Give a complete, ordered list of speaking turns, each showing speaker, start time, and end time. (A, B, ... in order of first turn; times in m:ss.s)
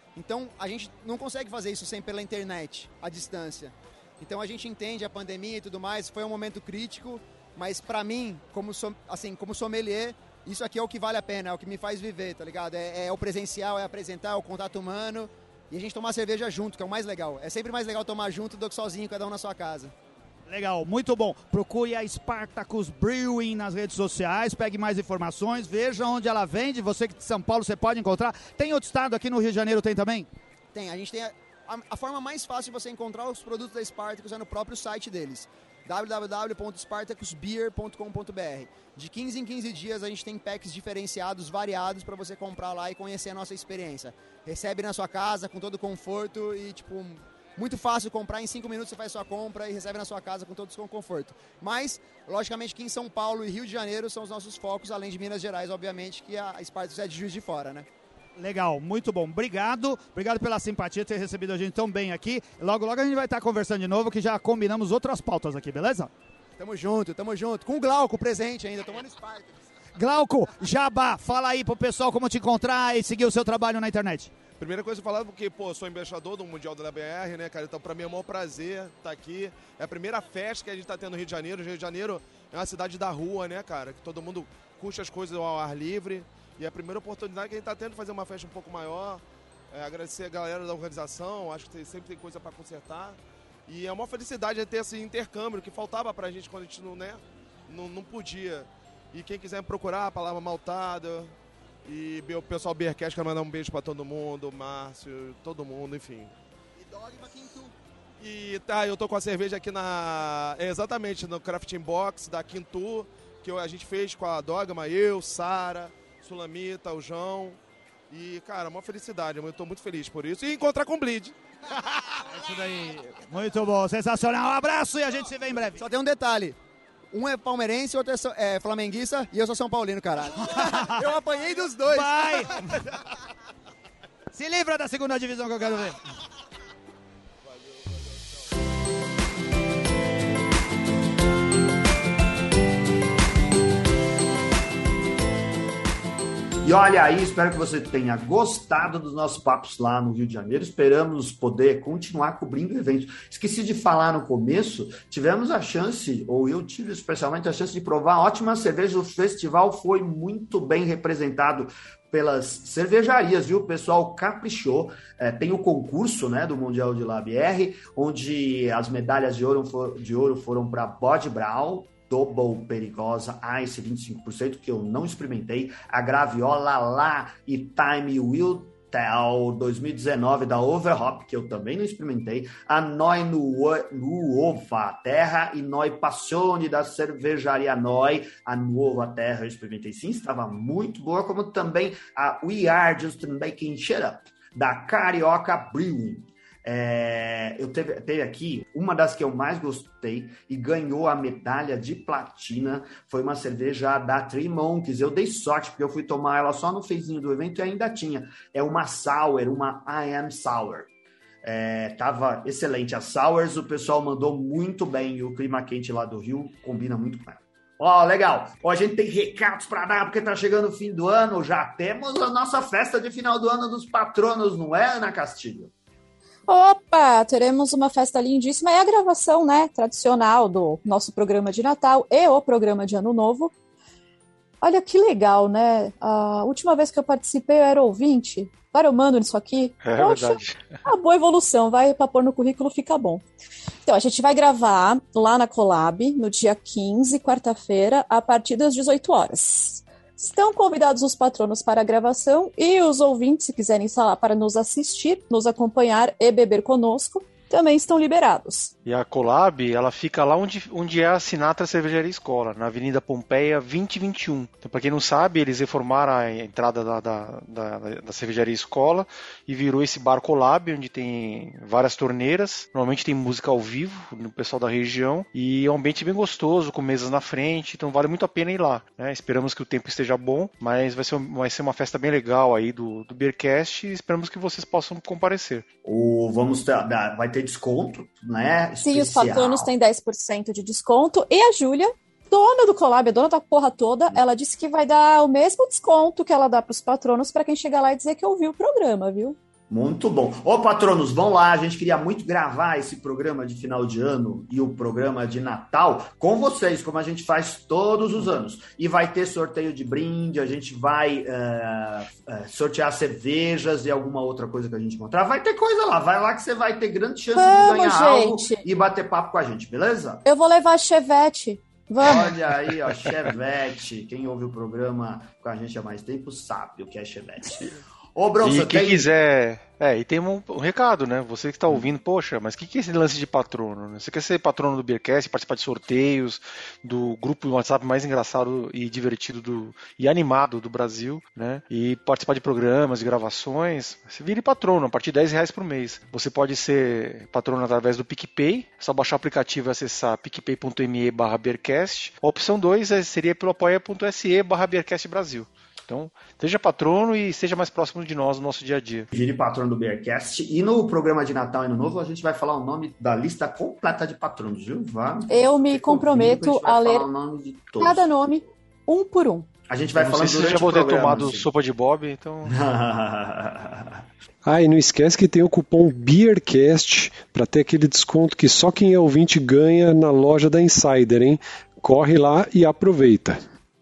0:00.2-0:19.9 A
0:20.5-0:30.3 B
0:30.7-0:57.9 A
0:58.4-1:06.1 B
1:06.6-1:09.6 A
1:10.0-1:14.3 B
1:14.6-1:41.3 C
1:41.8-1:46.3 C
1:46.8-1:47.7 A
1:48.2-1:57.6 C
1:58.1-2:01.3 C
2:02.2-2:02.9 C
2:02.3-2:05.8 B
2:05.8-2:06.6 A
2:07.1-2:12.5 A
2:10.5-2:11.0 B
2:11.9-2:12.8 B
2:14.3-2:16.0 B
2:26.6-3:30.9 D
3:31.4-3:45.7 D
3:46.5-3:53.5 E
3:54.6-4:03.2 E
3:59.8-4:00.8 F
4:03.8-4:18.7 E
4:18.8-4:45.6 F
4:45.8-4:49.7 D
4:48.8-4:59.4 E
4:59.7-5:20.2 D
5:17.3-5:18.6 E
5:20.2-5:22.4 E
5:22.0-5:29.1 D
5:28.4-5:59.1 F
5:59.1-6:08.1 D
6:05.3-6:07.1 E
6:07.8-6:09.5 E
6:09.7-6:11.5 D
6:10.0-6:12.5 F
6:12.4-6:14.0 D
6:14.4-6:23.4 G